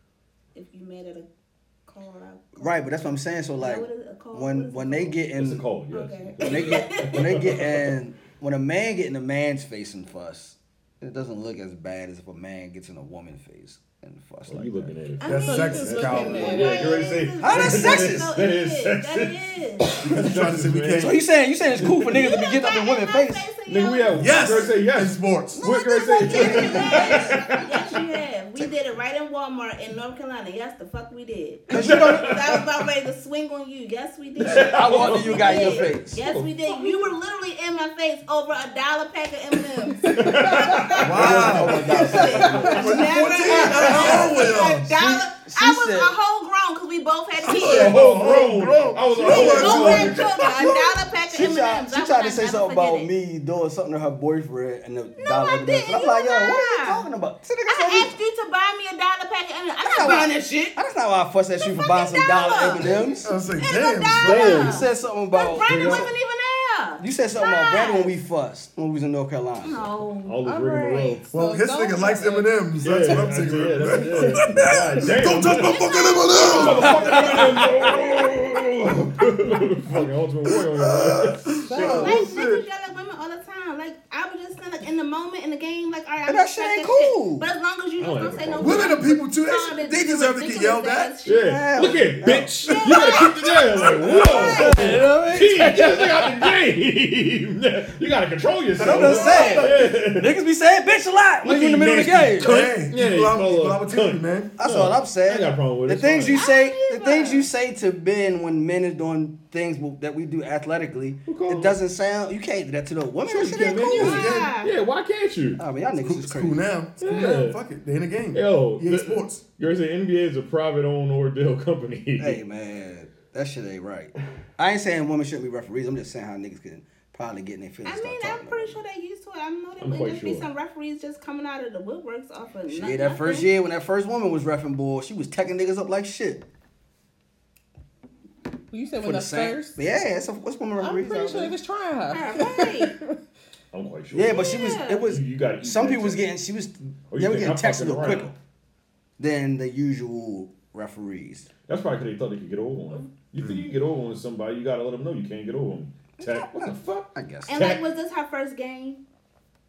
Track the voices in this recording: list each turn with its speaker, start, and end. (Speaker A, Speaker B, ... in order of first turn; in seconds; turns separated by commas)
Speaker A: 0.5-1.3, Speaker A: 1.9-2.9, Speaker B: 2.6-5.7, Speaker A: 3.6-5.2, Speaker C: 5.4-7.9, Speaker A: 5.9-7.5, Speaker B: 6.4-14.9, Speaker C: 14.5-21.2, Speaker A: 15.2-20.0, Speaker D: 15.2-16.6, Speaker E: 15.3-17.1, Speaker B: 17.4-18.4, Speaker D: 20.0-21.2, Speaker B: 21.0-23.5, Speaker C: 21.8-22.2, Speaker A: 22.1-24.7, Speaker C: 23.7-27.6, Speaker D: 24.1-25.7, Speaker A: 25.6-48.0, Speaker D: 26.3-26.8, Speaker B: 31.7-32.4, Speaker C: 31.7-32.6, Speaker C: 34.4-36.5, Speaker B: 34.4-36.2, Speaker E: 40.0-41.1, Speaker C: 40.1-41.6, Speaker D: 41.0-44.9, Speaker B: 41.0-44.4, Speaker B: 44.9-46.1, Speaker D: 47.4-51.0, Speaker C: 47.5-50.5, Speaker A: 49.2-53.1, Speaker B: 51.3-58.1, Speaker A: 55.2-57.0, Speaker A: 57.7-60.8, Speaker B: 59.8-63.3, Speaker A: 61.6-68.1, Speaker D: 63.2-64.8, Speaker C: 64.2-64.8, Speaker B: 64.3-66.1, Speaker C: 65.6-66.1, Speaker B: 67.0-69.9, Speaker A: 69.6-70.4, Speaker C: 70.2-71.2, Speaker E: 70.5-73.3, Speaker D: 71.3-77.9, Speaker C: 72.8-82.1, Speaker E: 73.9-74.3, Speaker A: 75.5-77.9, Speaker D: 80.5-82.6, Speaker E: 81.7-82.2, Speaker A: 81.8-91.6, Speaker B: 86.3-87.5, Speaker C: 88.0-89.0, Speaker D: 88.6-91.2, Speaker C: 91.2-100.4, Speaker B: 91.3-92.8, Speaker A: 92.7-95.0, Speaker B: 94.0-96.3, Speaker D: 98.8-100.0, Speaker B: 98.8-102.6, Speaker C: 101.4-106.5, Speaker D: 102.4-104.6, Speaker B: 104.6-114.4, Speaker A: 106.3-107.5, Speaker C: 111.3-111.8, Speaker C: 113.2-115.6, Speaker A: 113.9-114.7, Speaker B: 115.6-116.6, Speaker D: 116.0-119.4, Speaker C: 117.0-117.6, Speaker C: 118.3-122.4, Speaker B: 122.2-128.8, Speaker A: 127.8-133.5, Speaker C: 129.8-130.5, Speaker B: 132.7-136.4, Speaker E: 138.7-139.9, Speaker B: 139.0-141.6, Speaker E: 140.8-143.2, Speaker A: 142.1-142.9, Speaker C: 143.7-146.3, Speaker B: 144.1-148.4, Speaker A: 144.3-145.1, Speaker C: 147.1-148.3, Speaker B: 149.2-151.5, Speaker C: 151.7-157.8, Speaker B: 156.2-157.8, Speaker A: 157.5-159.0